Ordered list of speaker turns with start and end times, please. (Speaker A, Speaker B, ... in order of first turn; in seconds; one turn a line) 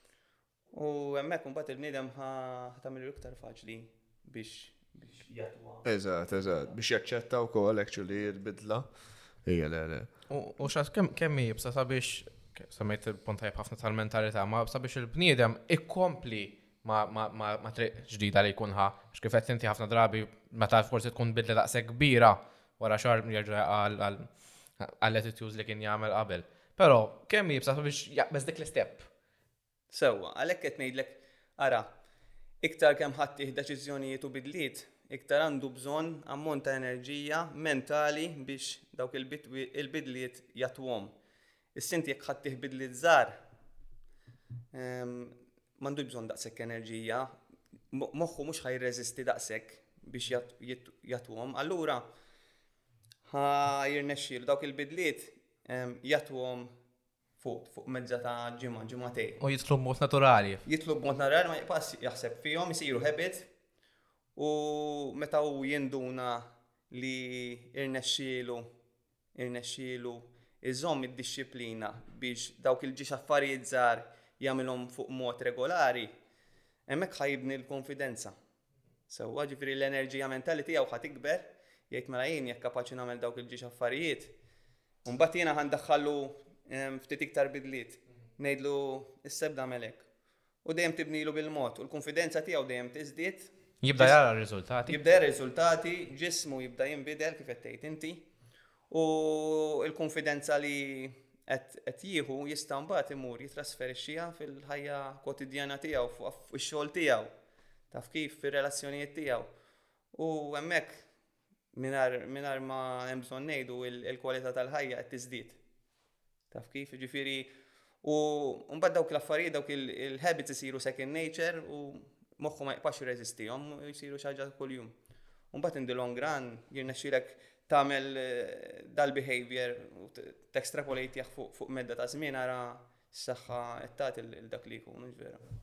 Speaker A: 0.7-5.9
Speaker B: 5.8-10.1
Speaker C: 10.3-29.1
Speaker A: 29.9-31.9
Speaker A: 32.6-41.1
Speaker A: 41.7-43.4
Speaker A: 44.7-47.3
Speaker A: 47.9-52.1
Speaker A: 53.2-56.7
Speaker A: 57.4-59.4
Speaker C: 59.4-60.6
Speaker A: 60.6-63.5
Speaker A: 64.3-68.7
Speaker A: 69.3-76.1
Speaker A: 76.9-78.3
Speaker A: 79.1-84.3
Speaker A: 85.0-90.1
Speaker A: 90.6-94.2
Speaker C: 93.8-95.0
Speaker A: 94.8-98.3
Speaker A: 98.9-107.3
Speaker A: 107.9-109.5
Speaker A: 110.1-111.1
Speaker A: 111.7-115.6
Speaker A: 116.5-124.9
Speaker A: 125.5-135.4